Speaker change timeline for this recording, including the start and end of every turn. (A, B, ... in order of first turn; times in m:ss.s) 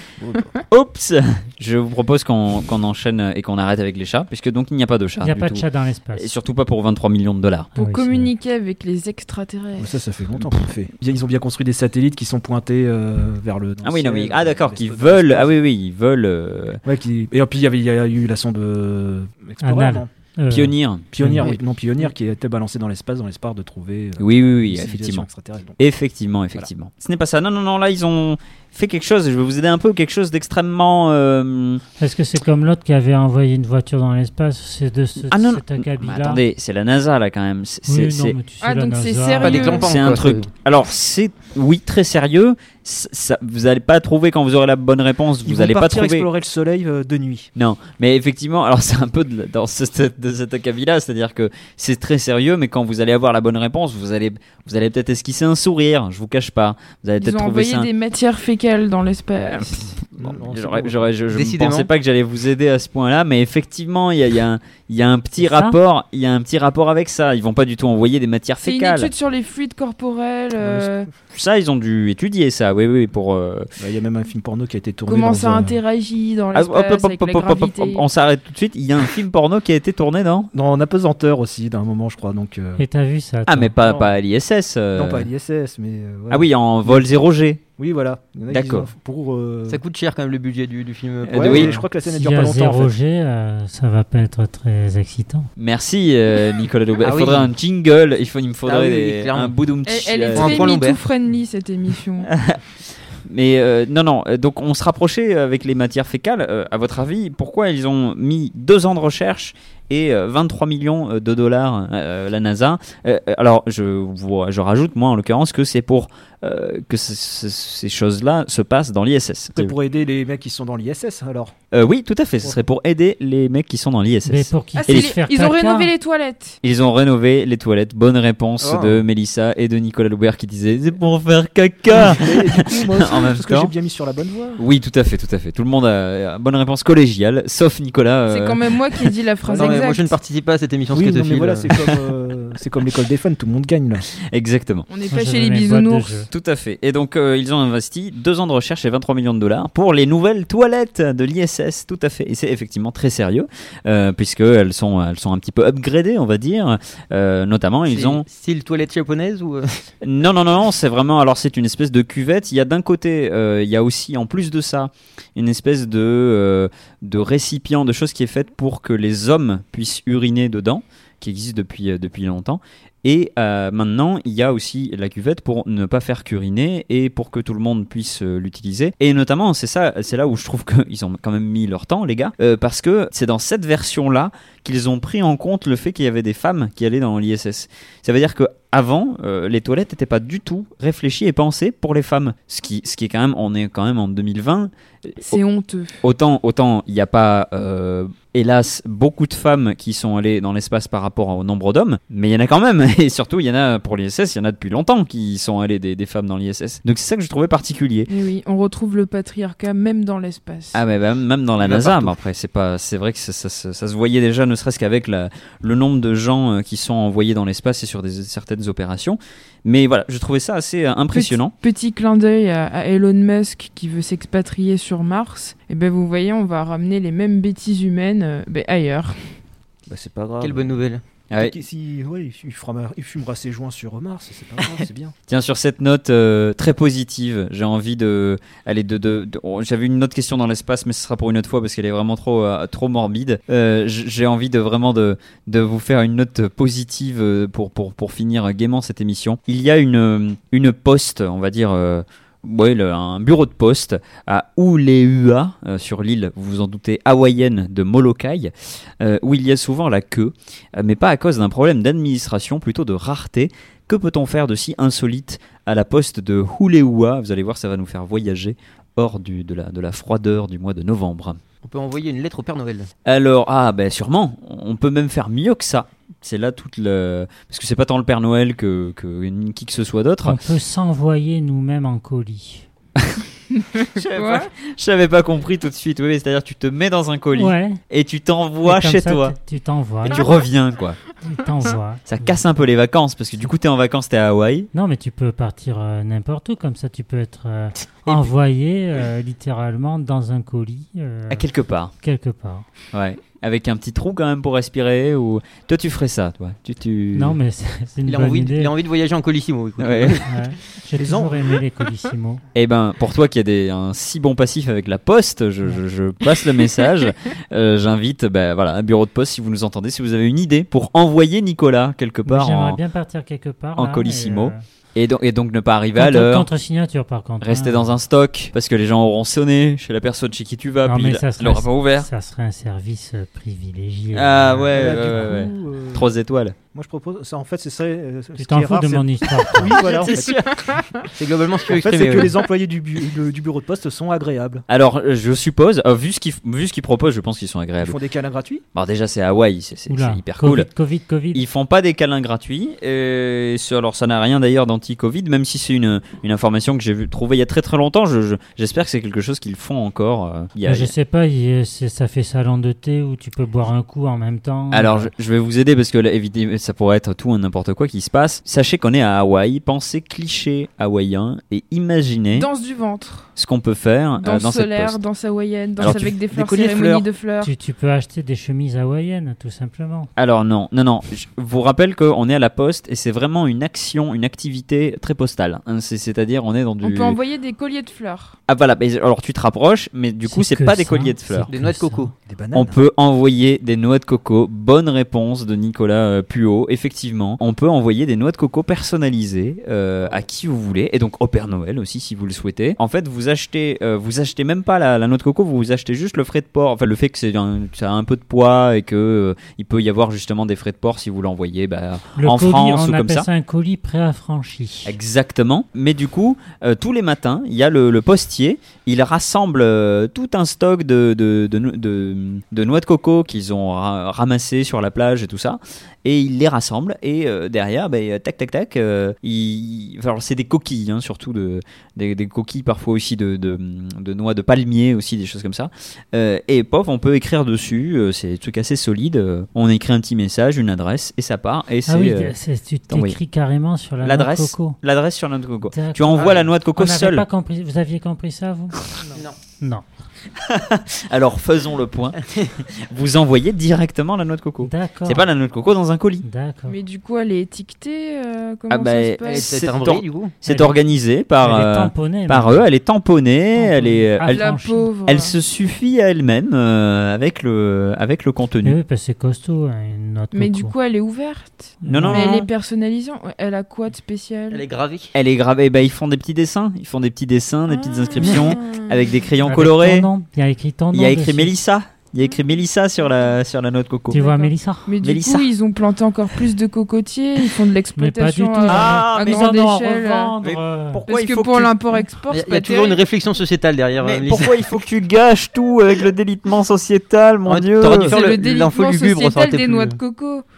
0:00.7-0:07.7 A
0:05.2-0:06.3 B
0:07.7-0:09.9 C
0:07.8-0:08.3 B
0:09.8-0:15.5 D
0:13.8-0:16.8 A
0:16.8-0:20.1 D
0:19.6-0:21.5 B
0:20.5-0:21.4 A
0:21.1-0:25.8 D
0:24.2-0:25.3 A
0:25.8-0:31.8 A
0:32.0-0:36.4 B
0:35.3-0:38.4 A
0:37.8-0:39.8 B
0:38.6-0:40.0 C
0:39.4-0:40.5 E
0:39.8-0:46.2 A
0:45.4-0:47.5 D
0:47.6-0:57.9 A
0:57.2-0:59.9 C
0:59.4-1:09.1 A
1:00.2-1:01.1 D
1:01.3-1:01.9 E
1:05.4-1:05.8 B
1:08.6-1:11.1 C
1:10.6-1:11.0 D
1:11.3-1:13.7 A
1:13.8-1:15.8 D
1:15.0-1:18.0 C
1:16.5-1:20.5 A
1:20.5-1:22.8 D
1:22.8-1:23.7 B
1:23.5-1:25.3 A
1:23.8-1:24.2 D
1:24.9-1:27.1 D
1:26.3-1:27.6 A
1:27.8-1:29.8 D
1:28.5-1:28.9 A
1:29.7-1:31.8 E
1:31.2-1:31.7 A
1:31.3-1:32.9 D
1:32.1-1:35.5 B
1:35.6-1:40.8 A
1:37.0-1:37.5 E
1:38.6-1:39.6 E
1:39.8-1:42.3 C
1:40.3-1:41.0 E
1:42.2-1:42.6 A
1:43.2-1:59.7 A
1:59.5-2:01.6 D
2:01.7-2:05.2 A
2:04.2-2:05.9 B
2:04.7-2:06.6 C
2:06.6-2:13.7 A
2:08.6-2:09.0 D
2:11.9-2:14.6 D
2:14.6-2:19.1 A
2:18.3-2:20.1 C
2:19.4-2:19.9 D
2:19.6-2:21.7 E
2:20.9-2:24.0 D
2:24.3-2:24.9 A
2:24.9-2:26.2 C
2:25.1-2:26.3 B
2:26.3-2:38.2 A
2:37.9-2:39.9 E
2:40.0-3:15.4 A
3:15.2-3:16.0 C
3:16.0-3:28.1 A
3:28.1-3:30.8 C
3:30.7-3:41.5 A
3:31.6-3:32.1 E
3:41.1-3:49.4 C
3:49.9-3:50.7 A
3:50.4-3:51.0 E
3:51.4-3:55.1 D
3:55.3-4:31.4 A
4:31.6-4:32.9 E
4:33.0-4:40.4 A
4:40.2-4:42.6 B
4:43.0-4:43.2 A
4:43.6-4:44.5 C
4:44.0-4:49.3 A
4:47.3-4:47.8 B
4:48.6-4:50.2 B
4:50.0-4:51.0 A
4:51.2-4:52.4 B
4:52.0-4:54.7 A
4:54.7-5:01.5 B
5:01.3-5:01.9 A
5:02.0-5:02.6 B
5:02.9-5:07.4 A
5:07.1-5:08.7 B
5:08.0-5:10.3 E
5:09.8-5:10.2 A
5:10.2-5:12.4 B
5:10.9-5:11.6 D
5:12.5-5:22.8 A
5:22.2-5:24.6 B
5:23.8-5:26.5 A
5:26.0-5:27.9 B
5:27.4-5:32.1 A
5:30.8-5:35.4 B
5:34.1-5:36.6 A
5:34.7-5:36.2 D
5:36.7-5:40.6 D
5:38.4-5:39.7 B
5:39.7-5:40.6 A
5:41.1-5:42.3 E
5:41.7-5:44.6 D
5:42.0-5:42.3 A
5:44.7-5:48.0 A
5:47.8-5:48.6 D
5:48.7-5:50.7 A
5:49.9-5:51.4 B
5:51.3-6:00.9 A
6:00.6-6:05.1 B
6:04.7-6:12.5 A
6:12.3-6:13.3 C
6:13.4-6:15.0 A
6:14.2-6:17.5 C
6:15.8-6:17.1 A
6:17.4-6:20.1 B
6:20.2-6:27.2 A
6:26.8-6:28.4 C
6:28.5-6:31.5 A
6:30.3-6:32.1 B
6:31.5-6:32.1 E
6:32.2-6:32.8 D
6:32.5-6:53.3 A
6:52.2-6:54.9 B
6:54.8-7:22.3 A
7:21.8-7:24.8 B
7:22.9-7:23.2 A
7:24.0-7:27.2 A
7:25.7-7:28.8 B
7:26.2-7:26.5 E
7:30.4-7:32.2 A
7:32.2-7:32.5 E
7:32.7-7:36.2 A
7:34.6-7:35.2 B
7:36.2-7:36.8 B
7:36.7-7:39.6 C
7:38.7-7:48.8 A
7:39.2-7:40.4 E
7:40.5-7:40.8 B
7:41.4-7:42.7 B
7:43.5-7:44.9 B
7:44.3-7:45.4 C
7:48.6-7:50.7 B
7:50.3-7:54.6 C
7:51.8-7:52.5 B
7:51.8-7:52.5 A
7:54.5-7:55.1 E
7:55.1-8:00.1 A
7:57.7-7:59.2 C
7:58.2-7:58.5 E
7:59.4-8:01.5 B
8:00.9-8:04.2 A
8:04.1-8:04.9 B
8:04.1-8:10.3 C
8:05.0-8:05.5 A
8:08.0-8:11.0 B
8:08.7-8:09.6 A
8:10.4-8:12.0 A
8:11.0-8:13.0 C
8:12.3-8:14.8 E
8:14.0-8:18.2 A
8:17.4-8:20.0 E
8:18.0-8:20.4 C